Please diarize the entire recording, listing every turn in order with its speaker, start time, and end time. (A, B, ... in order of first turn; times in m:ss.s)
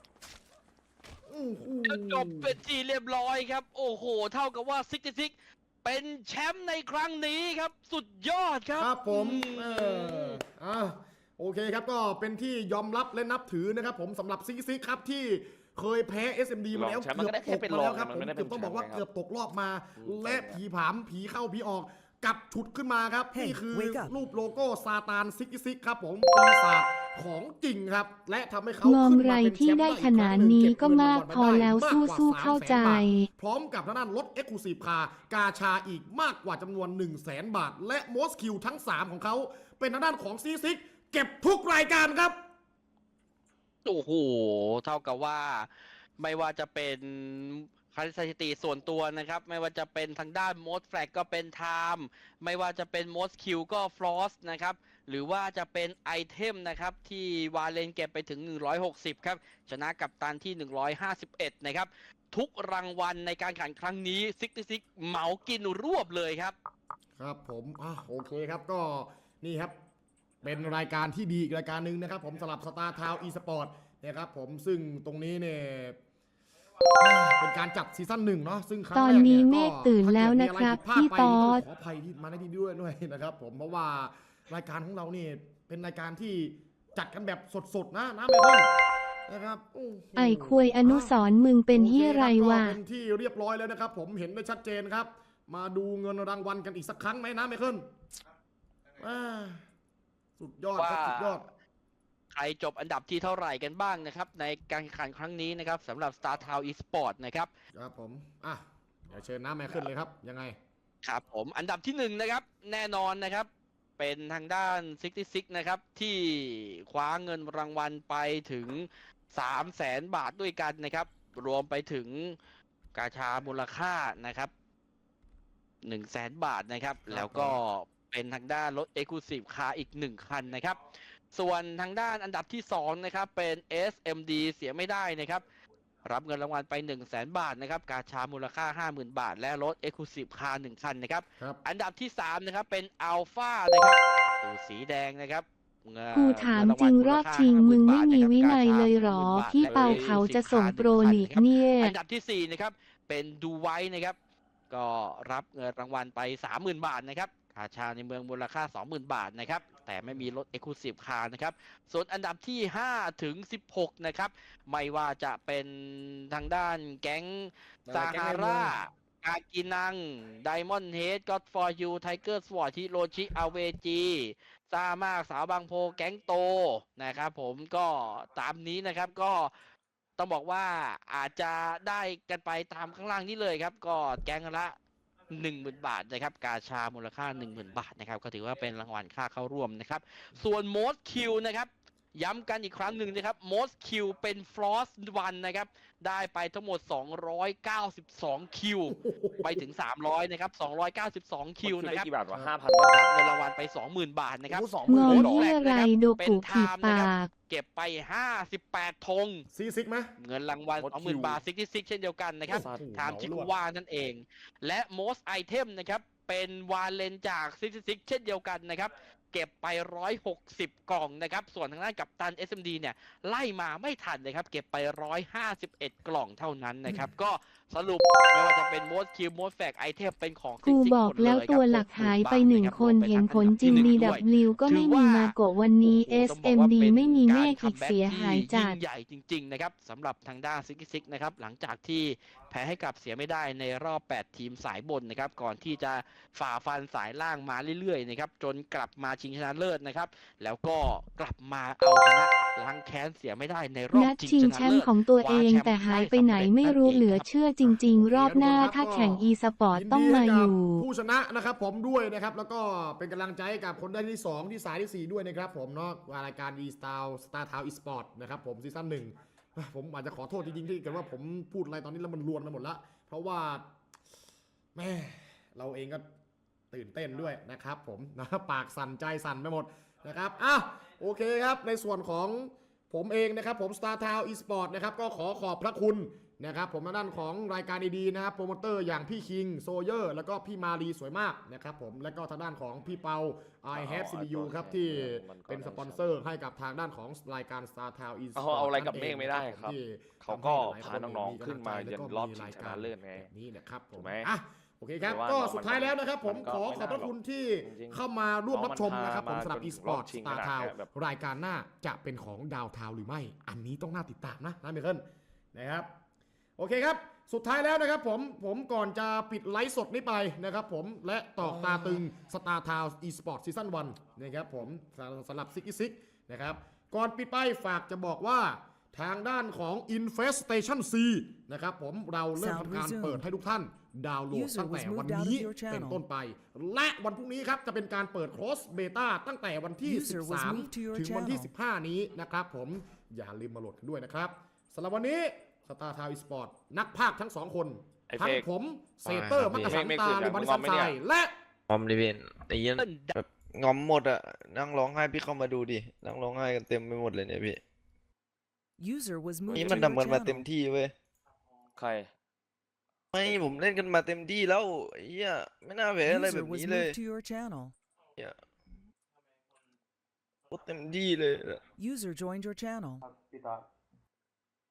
0:01.3-0:02.6 A
0:01.8-0:10.4 B
0:08.8-0:42.4 A
0:16.7-0:19.1 C
0:20.0-0:20.6 C
0:23.3-0:24.1 D
0:28.8-0:33.3 E
0:43.8-1:06.6 B
1:07.2-1:09.8 A
1:10.4-1:16.0 A
1:17.0-1:28.7 A
1:18.9-1:21.6 E
1:29.3-1:31.2 A
1:30.2-1:32.8 E
1:31.7-1:37.9 A
1:39.0-1:39.6 A
1:40.4-1:41.5 A
1:40.8-1:41.4 B
1:42.3-1:47.5 B
1:47.7-1:50.6 A
1:51.0-2:02.4 B
2:02.9-2:04.5 B
2:05.8-2:10.8 B
2:07.1-2:07.4 C
2:07.2-2:07.5 A
2:11.3-2:15.4 B
2:16.0-2:34.2 B
2:26.1-2:31.9 E
2:26.3-2:26.6 C
2:29.6-2:30.2 C
2:34.7-2:59.5 B
2:47.9-2:48.8 A
3:00.2-3:04.8 B
3:05.3-3:22.1 B
3:18.9-3:19.6 A
3:21.6-3:23.1 C
3:22.9-3:29.5 B
3:24.5-3:25.5 C
3:24.9-3:27.3 E
3:29.5-3:30.1 A
3:30.2-4:17.3 B
3:30.8-3:31.4 C
3:32.5-3:33.5 A
3:32.6-3:32.8 C
3:50.7-3:58.8 E
4:13.9-4:20.8 E
4:17.6-4:33.7 A
4:34.8-4:36.0 A
4:36.7-5:15.9 A
4:53.7-4:56.1 C
4:58.4-5:03.3 C
5:04.0-5:04.3 C
5:05.1-5:07.1 C
5:07.6-5:08.0 C
5:08.5-5:10.9 C
5:16.6-5:51.3 A
5:32.4-5:33.2 D
5:34.3-5:36.0 D
5:39.8-5:41.5 D
5:48.1-5:48.5 C
5:49.1-5:51.0 C
5:49.4-5:49.8 F
5:51.7-5:57.6 F
5:52.8-5:53.2 B
5:58.8-6:00.4 D
5:59.5-6:00.0 C
5:59.5-6:00.9 F
6:01.8-6:02.1 C
6:03.1-6:07.0 F
6:06.0-6:07.7 D
6:10.5-6:11.6 F
6:11.8-6:13.1 D